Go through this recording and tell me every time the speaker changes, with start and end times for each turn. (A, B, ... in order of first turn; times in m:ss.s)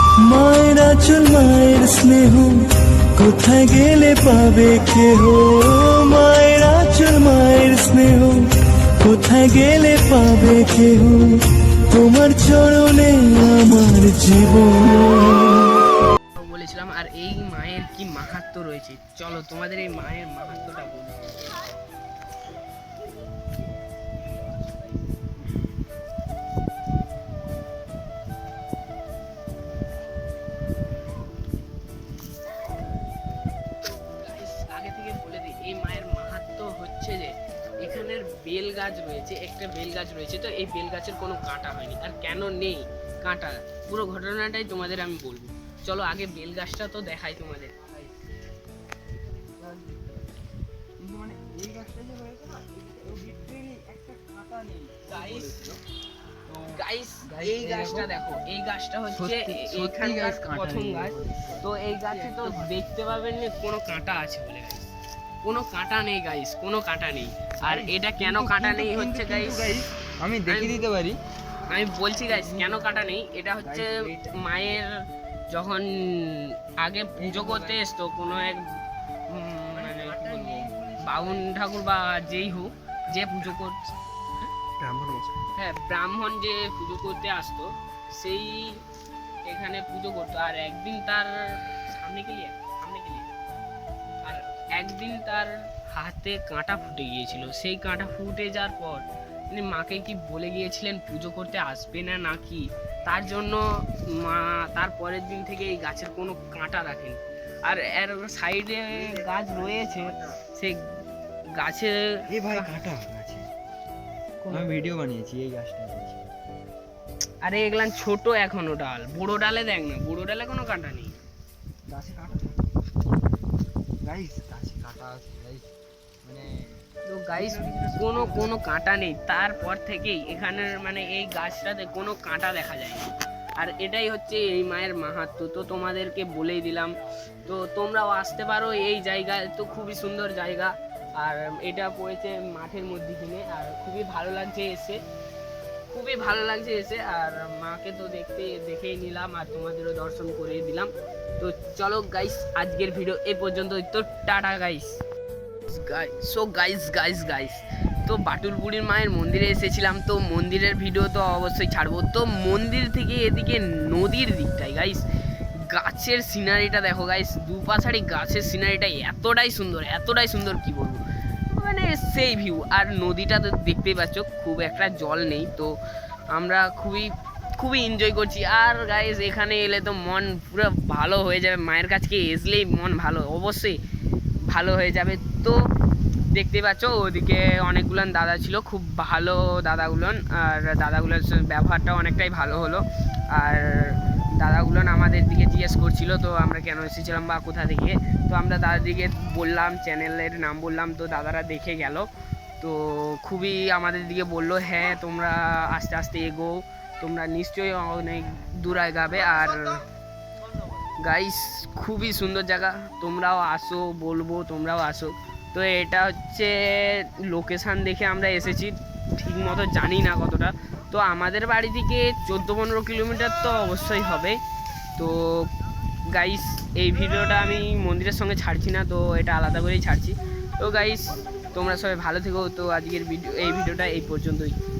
0:00.2-0:02.6 A
0:03.1-0:15.8 A
0:16.4-0:21.4 B
0:34.0-0:47.7 B
0:47.8-0:48.1 C
0:49.4-0:50.4 C
0:51.0-0:55.8 C
0:55.1-0:55.6 B
0:56.5-0:58.4 C
0:56.8-1:04.9 B
0:59.2-1:02.7 C
1:05.4-1:09.7 B
1:07.6-1:11.2 C
1:10.5-1:10.8 B
1:11.7-1:14.9 B
1:12.2-1:13.0 C
1:13.6-1:14.5 C
1:15.5-1:18.6 B
1:17.2-1:17.9 C
1:19.3-1:23.9 B
1:19.7-1:21.5 C
1:24.8-1:25.3 C
1:25.5-1:28.8 B
1:29.4-1:33.3 B
1:34.2-1:50.8 B
1:48.9-1:50.1 C
1:51.5-1:52.8 B
1:52.3-1:53.5 C
1:54.4-1:54.7 B
1:54.5-1:56.3 C
1:57.4-2:01.1 B
2:01.9-2:02.6 C
2:04.0-2:05.7 C
2:06.2-2:06.8 C
2:07.1-2:16.9 B
2:07.3-2:08.6 C
2:17.4-2:25.0 B
2:25.9-2:35.0 B
2:35.7-2:45.0 B
2:45.7-2:51.0 B
2:51.5-2:55.8 B
2:56.3-3:03.8 B
3:04.5-3:05.7 B
3:06.3-3:22.1 B
3:22.6-3:29.8 B
3:31.0-3:44.4 B
3:45.0-3:45.5 B
3:46.1-3:54.5 B